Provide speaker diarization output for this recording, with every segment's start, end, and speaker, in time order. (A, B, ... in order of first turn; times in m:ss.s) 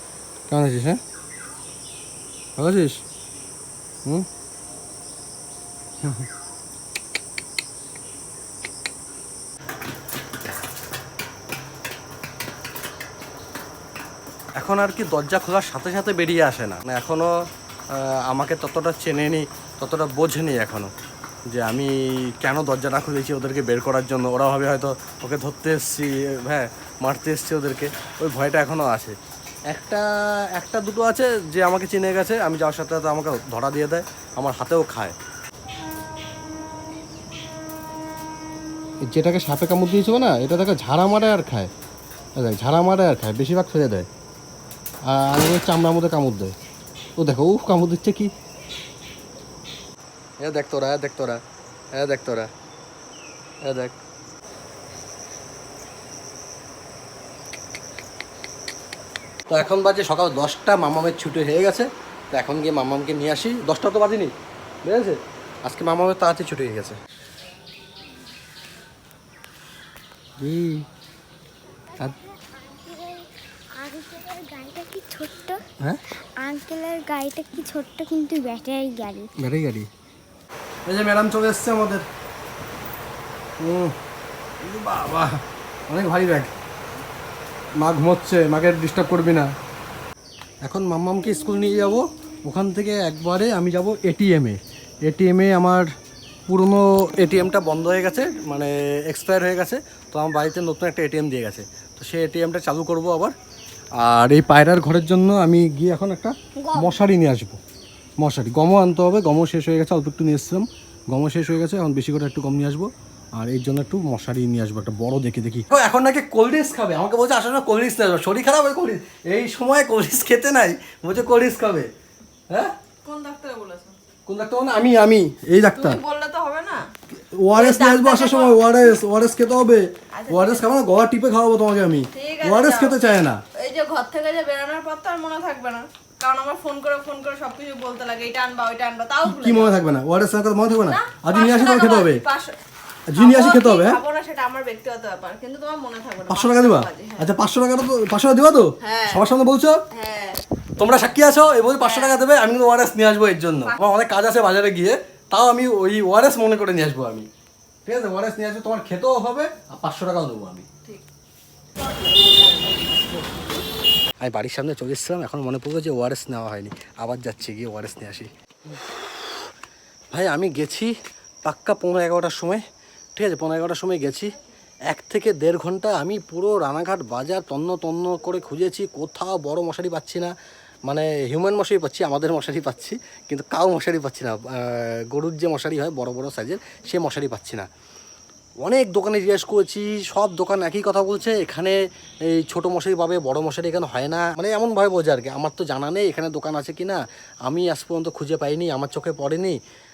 0:00.5-0:01.0 A
0:02.6-0:03.0 A
0:06.0-0:06.3 A
0:14.6-0:17.3 A
0:17.9-0:20.9 A
0:21.5-0:29.2 A
0:29.7-0:35.2 A
0:39.0-0:41.7 A
0:42.4-0:44.1 A
0:45.0-0:46.6 A
0:47.2-0:48.3 A
0:50.4-0:51.4 A
0:51.9-0:52.5 A
0:53.6-0:54.0 A
0:59.5-1:04.3 A
1:04.8-1:07.0 A
1:10.4-1:10.8 A
1:12.0-1:15.6 B
1:16.4-1:19.3 B
1:19.4-1:19.9 A
1:20.8-1:22.1 A
1:23.6-1:24.0 A
1:24.6-1:26.5 A
1:27.8-1:29.5 A
1:30.6-1:35.9 A
1:36.5-1:43.3 A
1:44.0-1:47.6 A
1:46.6-1:47.0 B
1:48.2-2:01.9 A
2:03.0-2:04.0 C
2:04.2-2:06.0 A
2:05.6-2:06.9 C
2:07.1-2:13.4 A
2:07.5-2:08.9 C
2:10.1-2:10.7 C
2:12.1-2:13.0 C
2:13.5-2:19.8 C
2:19.2-2:22.2 A
2:20.8-2:22.6 C
2:23.1-2:24.0 A
2:23.1-2:27.3 C
2:26.3-2:29.8 A
2:28.8-2:29.2 C
2:29.9-2:30.4 C
2:30.8-2:37.3 A
2:31.7-2:32.2 C
2:33.6-2:33.9 C
2:37.8-2:40.6 A
2:41.8-2:42.3 C
2:44.2-2:48.3 A
2:50.1-2:50.9 A
2:51.4-2:52.6 A
2:53.2-2:54.3 A
2:54.9-3:00.3 A
3:00.9-3:07.7 A
3:08.6-3:19.6 A